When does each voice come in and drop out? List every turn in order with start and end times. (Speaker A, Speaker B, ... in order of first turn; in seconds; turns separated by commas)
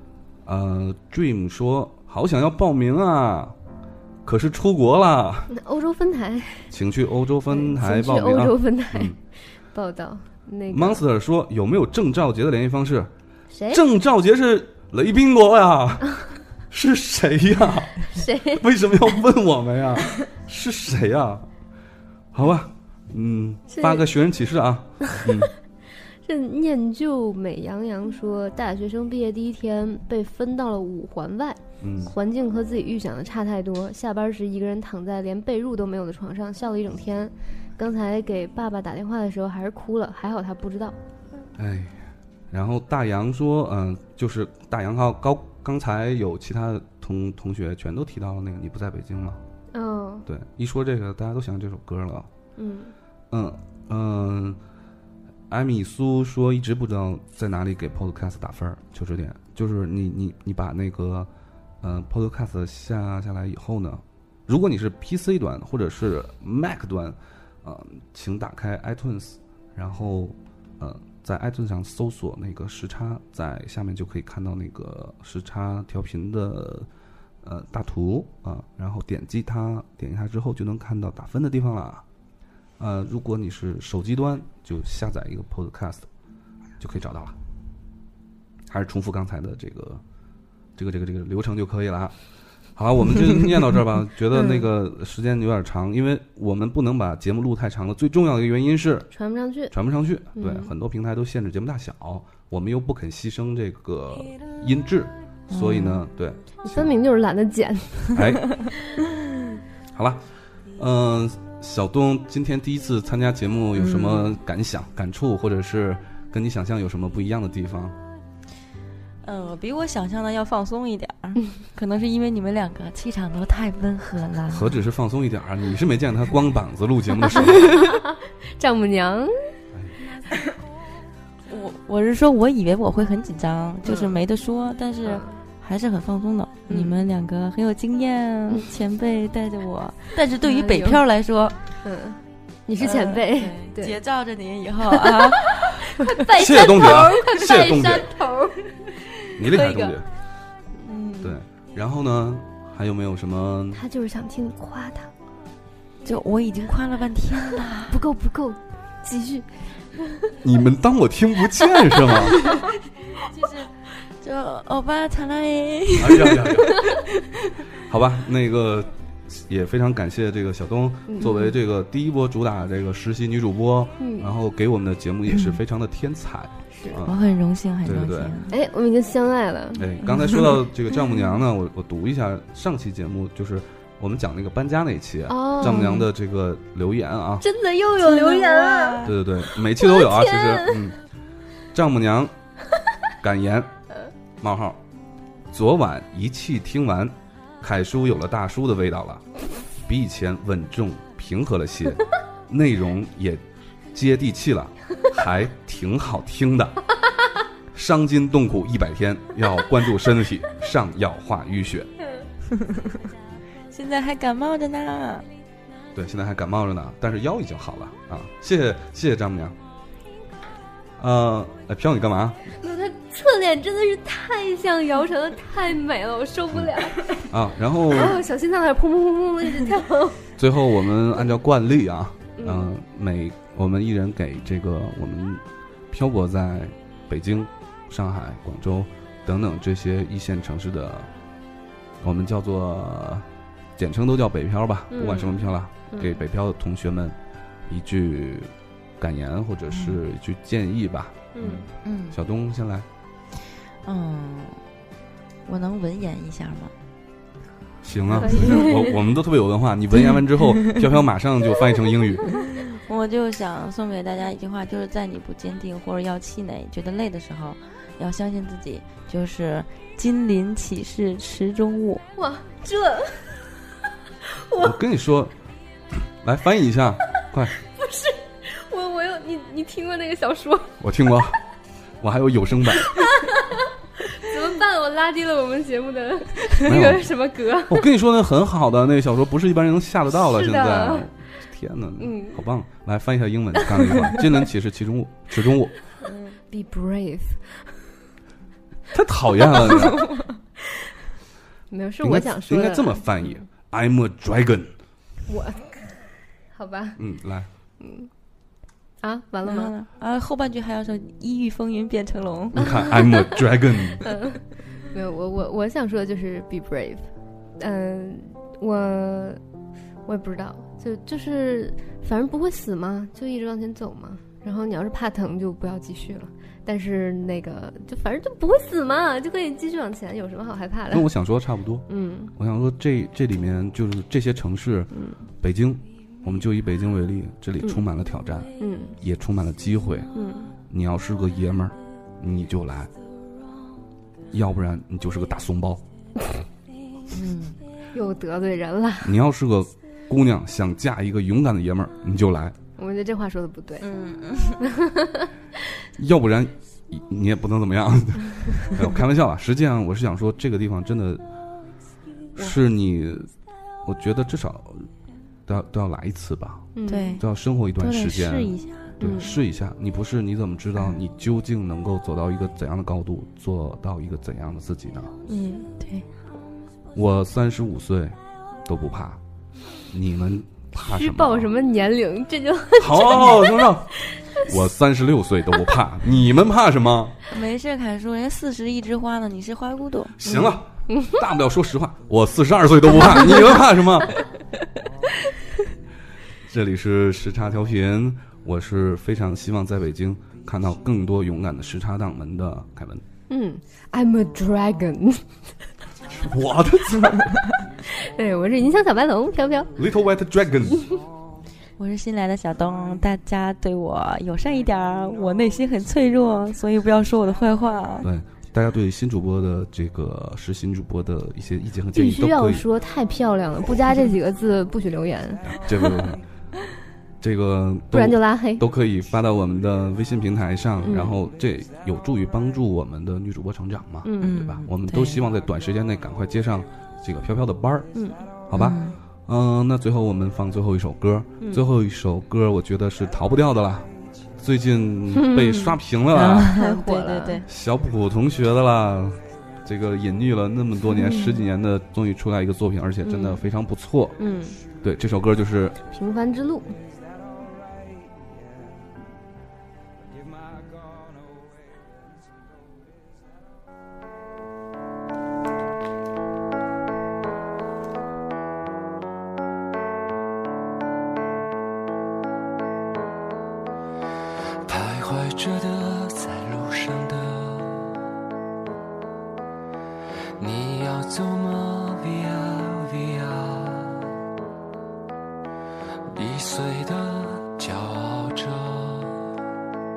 Speaker A: 0.5-3.5, Speaker A: 4.2-5.5, Speaker B: 5.5-6.7, Speaker A: 6.7-9.2, Speaker B: 7.5-9.2, Speaker B: 9.7-11.0, Speaker A: 10.7-13.1, Speaker B: 13.5-13.8, Speaker A: 13.7-21.5, Speaker B: 18.1-18.6, Speaker A: 22.3-25.5, Speaker B: 23.7-24.1, Speaker B: 26.2-41.0, Speaker A: 31.8-32.1, Speaker A: 41.6-49.4, Speaker B: 49.7-50.3, Speaker A: 50.3-52.3, Speaker B: 52.6-53.0, Speaker A: 53.3-54.6, Speaker A: 55.5-61.3, Speaker A: 61.8-76.9, Speaker A: 77.4-82.0, Speaker A: 82.8-86.1, Speaker A: 86.8-87.4, Speaker A: 88.7-90.0, Speaker A: 90.8-92.2, Speaker A: 92.8-99.1, Speaker B: 94.3-94.7, Speaker B: 99.1-99.7, Speaker A: 99.7-106.9, Speaker B: 100.3-100.7, Speaker C: 105.5-106.0, Speaker B: 106.7-108.2, Speaker A: 108.1-108.4, Speaker A: 109.9-110.2, Speaker A: 110.8-118.0, Speaker C: 113.8-114.3, Speaker C: 119.2-124.8, Speaker A: 124.5-127.9, Speaker B: 127.3-129.3, Speaker C: 131.5-141.6, Speaker B: 133.8-134.2, Speaker B: 135.0-135.4, Speaker B: 136.7-137.0, Speaker B: 140.4-141.0, Speaker B: 141.8-144.0, Speaker C: 142.8-145.8, Speaker B: 145.0-150.0, Speaker A: 146.3-148.1, Speaker A: 149.4-150.1, Speaker B: 150.8-151.3, Speaker A: 151.2-153.8, Speaker B: 153.7-155.1, Speaker C: 156.0-158.0, Speaker B: 157.9-160.3, Speaker A: 160.4-162.4, Speaker B: 161.9-162.7, Speaker C: 163.2-163.7, Speaker C: 164.2-167.1, Speaker A: 166.0-166.8, Speaker A: 167.9-177.2, Speaker B: 171.1-171.5, Speaker B: 174.0-174.3, Speaker B: 176.8-177.0, Speaker C: 177.0-178.5, Speaker A: 177.8-178.4, Speaker B: 178.5-180.6, Speaker A: 179.8-187.5, Speaker B: 185.3-186.0, Speaker C: 185.7-186.1, Speaker B: 187.4-189.1, Speaker C: 188.0-189.1, Speaker A: 189.0-191.0, Speaker B: 189.7-190.9, Speaker A: 191.7-192.3, Speaker A: 193.2-193.7, Speaker A: 194.4-194.8, Speaker A: 195.5-199.2, Speaker A: 199.8-206.8, Speaker A: 207.7-211.9, Speaker C: 213.7-215.3, Speaker A: 215.9-219.6, Speaker A: 221.0-222.4, Speaker B: 222.5-227.2, Speaker A: 227.3-228.2, Speaker B: 227.9-230.2, Speaker A: 230.4-241.1, Speaker B: 232.4-232.7, Speaker A: 242.0-247.2, Speaker B: 244.9-245.4, Speaker B: 245.9-246.2, Speaker A: 247.7-252.9, Speaker C: 249.7-250.0, Speaker B: 251.3-251.7, Speaker C: 251.8-252.2, Speaker C: 253.8-254.6, Speaker C: 255.5-256.7, Speaker A: 257.8-262.4, Speaker C: 258.1-258.4, Speaker B: 258.2-259.0, Speaker C: 262.7-272.0, Speaker B: 272.2-273.6, Speaker B: 274.3-274.8, Speaker A: 274.6-275.3, Speaker A: 276.2-277.5, Speaker B: 277.8-280.8, Speaker A: 280.8-281.4, Speaker A: 282.0-282.9, Speaker B: 282.8-283.6, Speaker B: 284.2-287.9, Speaker A: 286.6-287.1, Speaker A: 287.7-295.7, Speaker B: 290.2-291.1, Speaker B: 292.0-292.4, Speaker B: 293.7-294.2, Speaker B: 296.5-297.6, Speaker A: 298.9-300.1, Speaker B: 299.4-300.2, Speaker B: 301.7-303.3, Speaker A: 302.0-304.7, Speaker B: 305.3-305.9, Speaker B: 306.5-307.0, Speaker A: 307.0-307.5, Speaker B: 307.8-308.1, Speaker B: 309.0-309.7, Speaker C: 309.5-312.8, Speaker A: 312.5-314.0, Speaker B: 312.6-313.4, Speaker B: 314.0-314.4, Speaker B: 314.9-319.4, Speaker B: 320.1-331.1, Speaker A: 330.9-340.1, Speaker B: 331.9-332.3, Speaker B: 334.9-335.2, Speaker B: 338.6-338.9, Speaker B: 340.1-340.5, Speaker A: 340.7-342.9, Speaker A: 344.3-345.8, Speaker C: 347.1-347.6, Speaker B: 347.9-349.1, Speaker A: 349.0-352.6, Speaker B: 352.8-353.9, Speaker C: 353.8-354.6, Speaker B: 354.6-355.3, Speaker A: 356.0-361.2, Speaker A: 362.4-363.3, Speaker A: 363.9-364.9, Speaker A: 365.5-375.1, Speaker B: 366.8-367.2, Speaker C: 366.9-367.2, Speaker C: 367.8-368.9, Speaker B: 369.0-369.4, Speaker B: 375.3-375.7, Speaker C: 375.8-376.1, Speaker A: 376.9-379.2, Speaker A: 379.9-381.5, Speaker B: 380.8-383.7, Speaker A: 382.8-387.2, Speaker C: 387.3-390.2, Speaker A: 390.2-394.2, Speaker B: 390.2-391.1, Speaker A: 396.5-403.0, Speaker B: 403.3-405.5, Speaker A: 406.1-407.3, Speaker B: 407.9-409.7, Speaker A: 409.8-410.9, Speaker C: 411.8-418.1, Speaker A: 418.0-422.6, Speaker B: 422.0-425.5, Speaker A: 425.5-426.2, Speaker A: 427.2-437.9, Speaker B: 427.9-428.6, Speaker B: 430.8-431.2, Speaker B: 434.0-434.4, Speaker C: 434.2-435.2, Speaker B: 437.9-438.3, Speaker A: 438.5-446.6, Speaker C: 438.5-439.0, Speaker B: 445.1-445.8, Speaker C: 446.1-447.4, Speaker B: 446.5-447.4, Speaker A: 447.5-454.2, Speaker B: 450.9-451.4, Speaker B: 453.0-453.4, Speaker B: 454.2-454.6, Speaker A: 454.8-455.8, Speaker B: 455.9-456.8, Speaker D: 474.6-478.0, Speaker D: 480.4-484.2, Speaker D: 486.1-489.3